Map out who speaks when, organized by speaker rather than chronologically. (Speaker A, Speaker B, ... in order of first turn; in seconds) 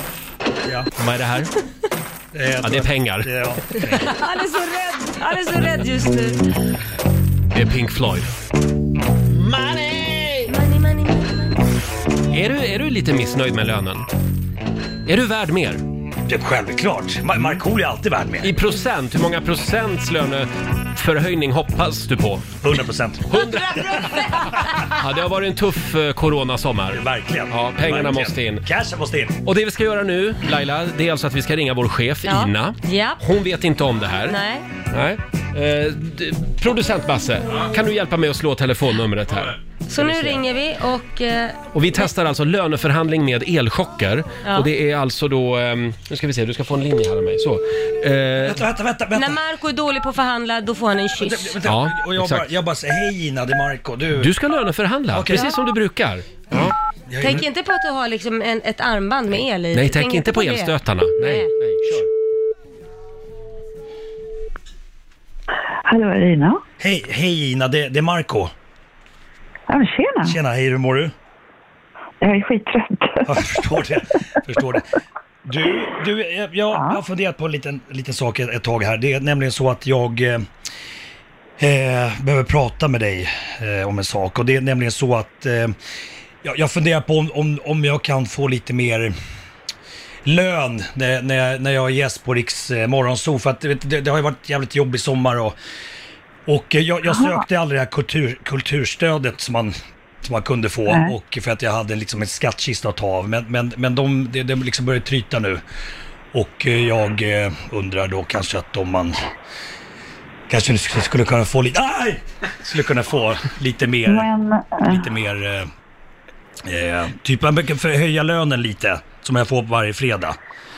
Speaker A: 0.6-0.9, 2.3-4.1, 16.3-18.5, 22.6-23.3, 26.9-29.4, 48.4-49.4, 51.2-54.3, 55.1-55.5, 57.1-57.5, 66.8-68.5, 70.2-71.1, 73.2-74.8, 75.4-80.5, 81.6-85.7, 86.4-89.1, 90.2-95.5, 96.5-105.6, 106.3-109.2, 110.5-114.3, 114.9-115.7, 116.6-120.4
Speaker B: 0.9-1.5, 2.6-3.3, 7.5-8.3, 9.2-10.5, 12.3-14.1, 15.0-15.8, 18.4-22.5, 23.3-28.6, 29.4-34.4, 34.9-40.4, 41.7-48.6, 51.6-52.5, 54.2-56.7, 59.7-62.1
Speaker C: 3.9-6.4, 10.5-11.6, 32.2-33.2, 34.3-34.6, 39.9-42.1, 49.1-51.5, 57.2-61.5
Speaker D: 65.9-66.6, 69.7-70.4, 72.2-73.4, 76.7-77.0, 97.1-97.4, 100.9-101.1, 114.0-115.1